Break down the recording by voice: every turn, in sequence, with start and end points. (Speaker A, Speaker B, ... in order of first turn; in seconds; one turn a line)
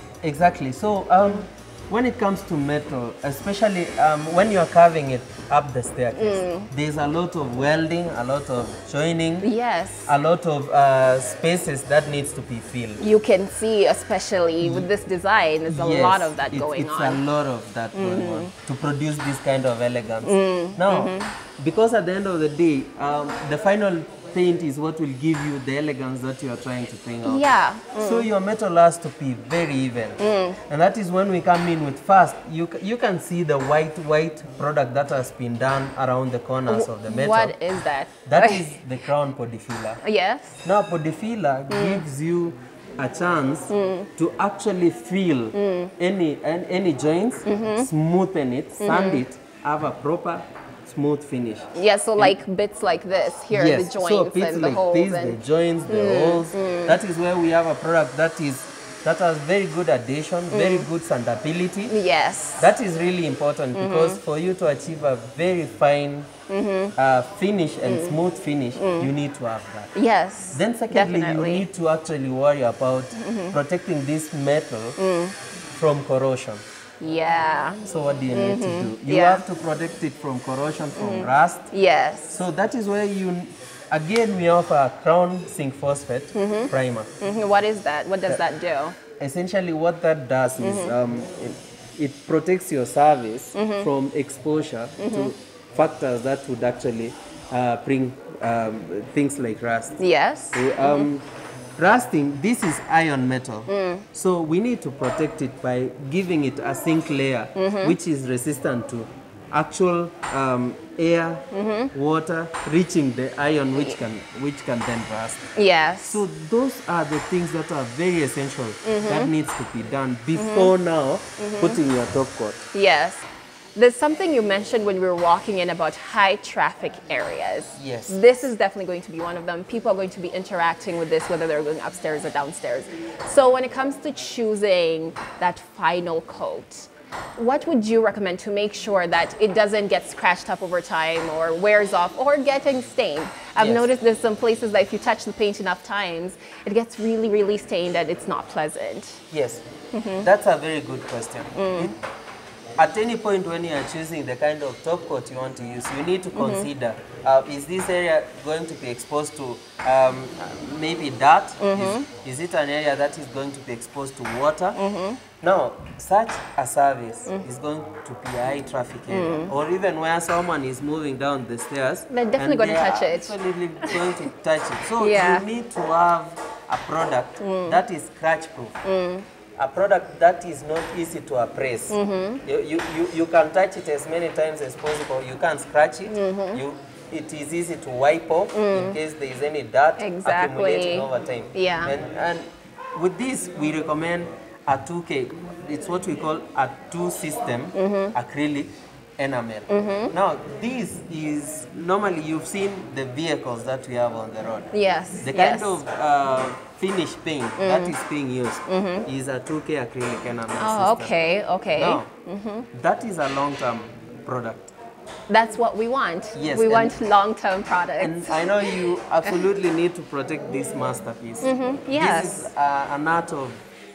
Speaker A: 0.2-9.5
Speaker B: 6.2-6.7
Speaker B: 9.4-10.1
Speaker A: 10.1-13.0
Speaker B: 13.0-17.2
Speaker A: 14.6-14.9
Speaker A: 15.7-27.4
Speaker B: 17.9-18.5
Speaker B: 20.2-21.3
Speaker B: 27.2-28.3
Speaker A: 27.9-37.5
Speaker B: 30.2-30.6
Speaker B: 36.7-38.7
Speaker A: 38.2-40.0
Speaker B: 40.0-40.6
Speaker A: 40.6-52.4
Speaker B: 41.7-42.0
Speaker B: 43.7-44.1
Speaker B: 45.5-45.9
Speaker B: 47.5-47.9
Speaker B: 48.8-49.2
Speaker B: 51.7-57.0
Speaker A: 53.5-62.0
Speaker B: 60.5-60.9
Speaker B: 61.9-62.7
Speaker A: 62.6-66.3
Speaker B: 63.8-64.2
Speaker B: 66.5-66.9
Speaker A: 67.0-69.9
Speaker B: 67.9-68.2
Speaker B: 68.8-69.1
Speaker B: 69.9-71.7
Speaker A: 70.5-75.0
Speaker B: 73.2-73.5
Speaker B: 75.0-75.3
Speaker A: 75.7-76.6
Speaker B: 77.0-77.8
Speaker A: 77.8-81.7
Speaker B: 78.3-79.4
Speaker B: 81.0-82.4
Speaker A: 82.3-87.1
Speaker B: 86.3-89.0
Speaker A: 89.2-100.0
Speaker B: 90.6-90.9
Speaker B: 93.5-93.9
Speaker B: 95.0-95.3
Speaker B: 100.0-101.1
Speaker A: 100.5-115.5
Speaker B: 103.7-104.0
Speaker B: 107.5-107.9
Speaker B: 111.5-111.9
Speaker B: 115.5-116.2
Speaker A: 116.0-122.6
Speaker B: 118.8-119.3
Speaker B: 120.3-120.7
Speaker B: 121.4-121.8
Speaker B: 122.7-149.2
Speaker A: 127.8-128.5
Speaker A: 143.6-143.9
Speaker A: 149.3-149.6
Speaker B: 149.9-150.3
Speaker A: 150.2-151.9
Speaker B: 151.5-151.9
Speaker A: 152.8-164.8
Speaker B: 156.3-156.7
Speaker B: 161.6-162.1
Speaker B: 164.8-165.2
Speaker A: 165.4-178.8
Speaker B: 169.1-169.5
Speaker B: 172.1-174.1
Speaker B: 175.0-175.4
Speaker B: 177.4-177.8
Speaker B: 178.8-179.2
Speaker A: 179.6-204.7
Speaker B: 181.9-182.4
Speaker B: 186.1-186.6
Speaker B: 188.5-189.0
Speaker B: 190.0-191.9
Speaker B: 197.8-198.1
Speaker B: 199.7-200.1
Speaker B: 204.7-205.8
Speaker A: 205.2-211.1
Speaker B: 207.6-207.9
Speaker B: 208.7-209.1
Speaker B: 210.6-212.7
Speaker A: 211.8-212.1
Speaker A: 212.7-214.7
Speaker B: 215.3-218.8
Speaker A: 216.3-217.0
Speaker A: 218.0-223.6
Speaker B: 221.4-222.5